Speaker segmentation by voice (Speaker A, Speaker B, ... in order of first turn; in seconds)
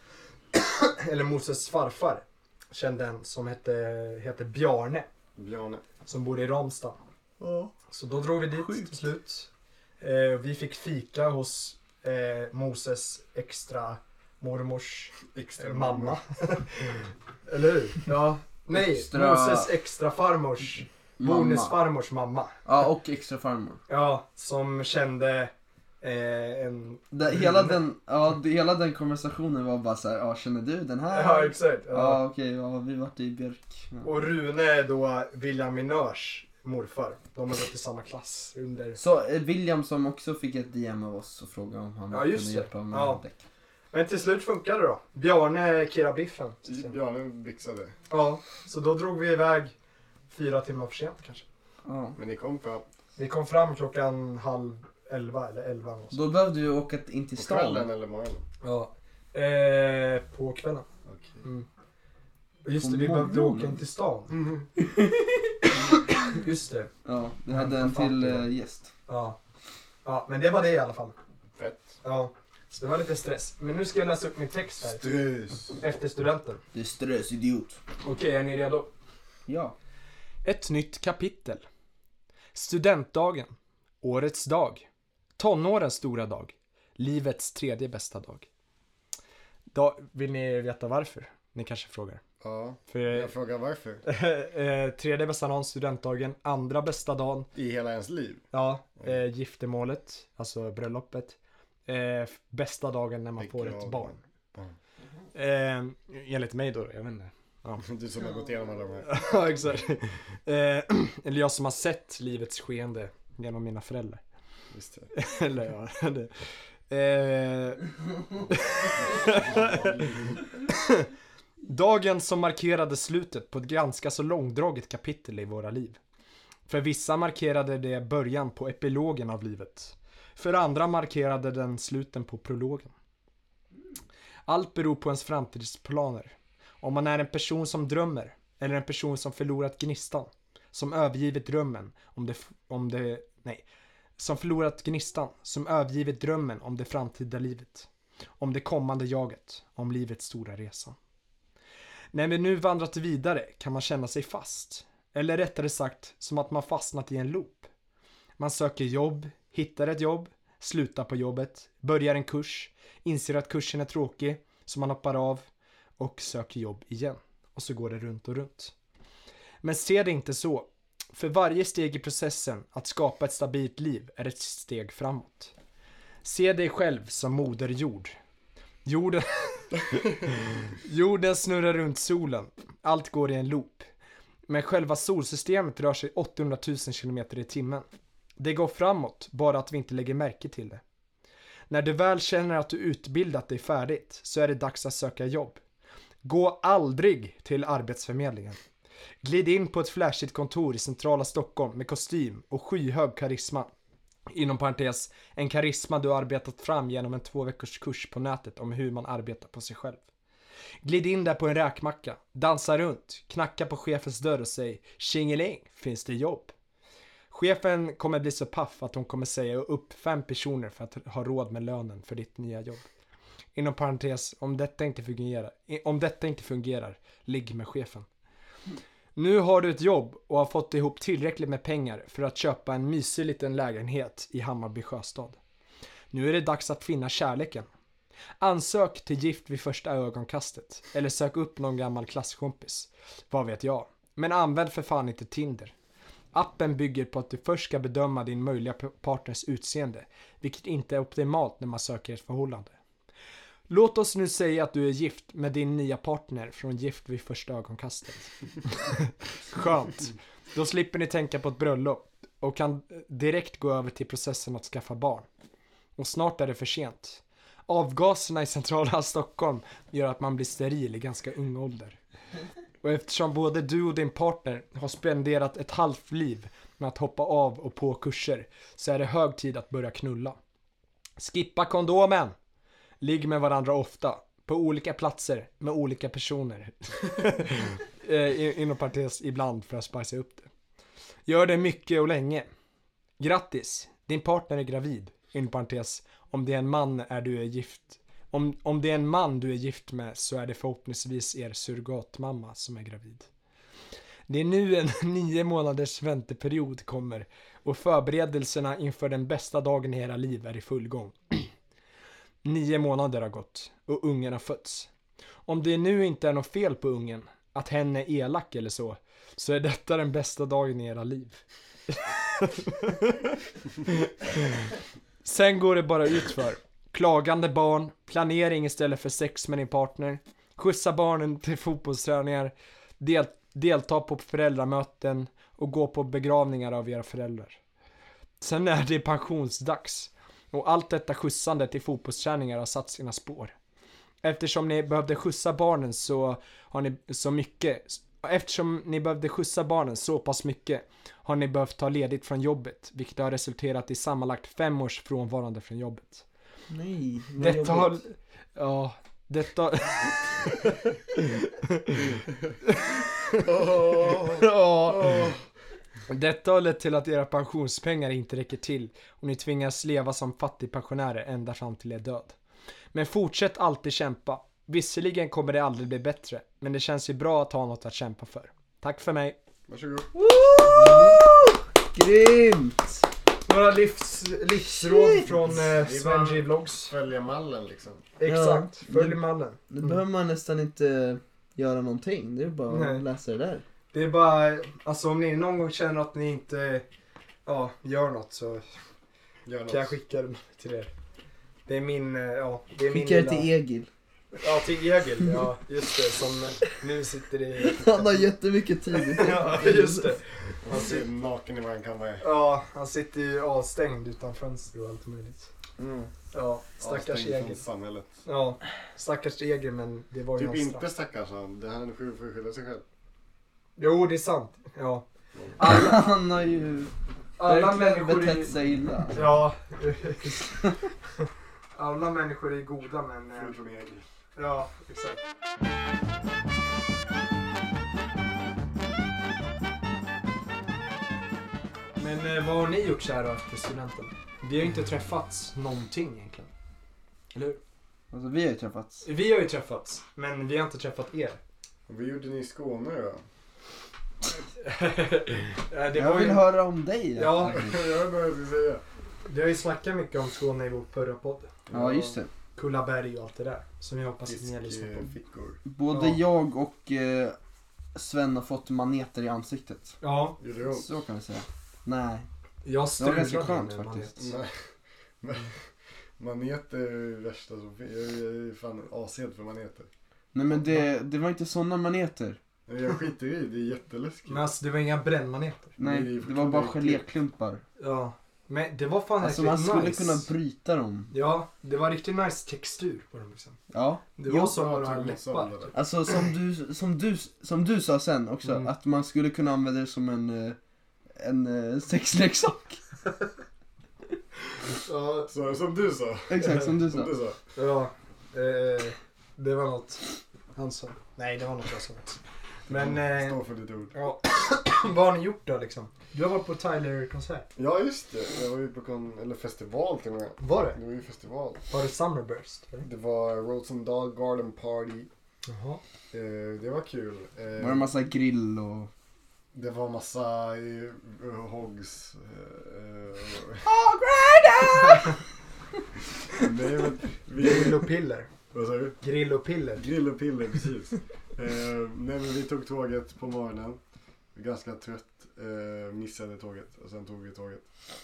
Speaker A: 0.5-5.1, 6.0-7.0, 7.9-9.5, 10.0-22.6, 23.9-27.6, 31.1-32.2, 34.0-39.0, 42.1-43.2, 43.9-46.9, 48.1-49.7, 50.3-51.4, 53.2-56.2, 58.6-60.9, 62.6-64.3, 66.2-66.9, 67.5-68.5, 69.1-69.4, 70.0-71.1, 72.0-75.0, 75.8-76.6, 78.0-78.9, 80.4-81.6, 82.5-84.8, 85.4-88.5, 89.7-92.2, 92.9-93.3, 94.0-97.5, 98.5-104.2, 105.3-107.8, 109.0-114.2, 115.1-117.8, 118.5-120.0, 120.7-121.1, 121.7-126.0, 126.7-132.9, 134.5-143.6, 144.2-147.9, 148.4-150.9, 152.1-157.7, 158.4-165.5, 166.0-168.7, 169.6-175.5, 176.2-178.1, 178.8-179.7, 180.8-183.9, 184.5-187.9, 188.4-190.8, 191.7-195.6, 196.2-198.6, 199.2-203.7, 204.3-210.0, 210.8-216.5, 217.3-222.8, 223.5-228.1, 229.2-235.4, 236.1-237.7, 238.4-245.7, 246.3-252.8, 253.7-265.3, 266.0-272.0, 272.8-280.4, 281.2-282.3, 283.0-290.5, 291.3-292.5, 293.2-303.3, 304.3-311.5, 312.4-314.9, 315.4-323.2, 323.9-324.6, 325.2-337.6, 338.4-343.5, 344.2-356.2, 357.4-362.1, 362.7-363.0, 364.0-365.3, 366.1-372.4, 372.9-379.4, 380.6-381.2, 383.4-386.9, 388.2-390.0, 392.7-393.0, 393.9-396.9, 397.4-398.6, 399.7-400.9, 401.6-403.5, 404.4-408.2, 408.9-411.0, 412.2-415.5, 416.3-417.6, 418.2-420.8, 423.8-425.1, 425.6-425.9, 427.4-428.5, 429.1-430.7, 431.8-433.5, 434.4-435.2, 442.0-446.5, 447.3-447.6, 449.0-451.4, 454.4-456.5, 457.1-457.6, 459.2-461.5, 462.6-465.1, 465.9-466.2, 470.0-470.4, 472.6-474.1, 484.3-485.8, 487.8-490.3, 491.1-493.6, 494.2-495.7, 498.4-498.7, 504.8-505.3, 507.6-510.0, 510.6-513.4, 513.9-517.5, 520.4-520.8, 521.7-522.9, 525.5-525.8, 537.4-538.3, 539.0-539.8
Speaker B: 5.3-5.8, 15.3-16.2, 46.6-48.0, 52.1-52.8, 57.4-58.4, 61.0-61.4, 64.3-64.7, 71.5-72.0, 74.8-75.8, 92.4-94.0, 97.5-98.5, 103.4-104.7, 107.8-109.1, 114.7-115.1, 119.2-120.4, 363.4-365.4, 379.7-380.1, 385.7-388.1, 399.4-399.9, 410.6-412.2, 415.8-416.1, 416.8-418.2, 420.4-422.8, 433.3-434.1, 451.9-453.2, 457.5-458.8, 461.7-462.2, 464.3-465.6, 470.4-470.9, 474.2-474.5, 475.2-475.6, 476.2-479.9, 482.7-484.5, 485.8-487.0, 494.5-495.8, 505.3-507.4, 512.7-513.9, 517.5-521.6, 522.8-525.1, 526.1-527.9, 529.5-533.6, 536.4-537.9, 538.5-539.0, 539.8-543.8, 544.3-547.6
Speaker C: 7.4-7.7, 8.5-8.9, 18.7-19.7, 21.2-21.8, 22.6-23.8, 27.1-34.1, 39.0-43.4, 51.9-52.2, 56.1-57.9, 62.8-63.8, 64.8-65.4, 67.0-68.9, 76.7-77.8, 79.5-79.8, 356.7-358.0, 380.1-382.9, 384.8-385.5, 388.2-393.6, 402.9-403.9, 407.6-410.1, 425.6-429.3, 448.1-449.1, 455.9-457.8, 461.7-462.3, 465.6-467.4, 467.9-470.0, 470.6-472.3, 473.0-474.3, 480.3-482.4, 485.8-487.6, 489.2-491.1, 493.7-494.6, 495.7-500.6, 501.1-502.8, 506.3-507.1, 527.6-528.9, 533.6-535.2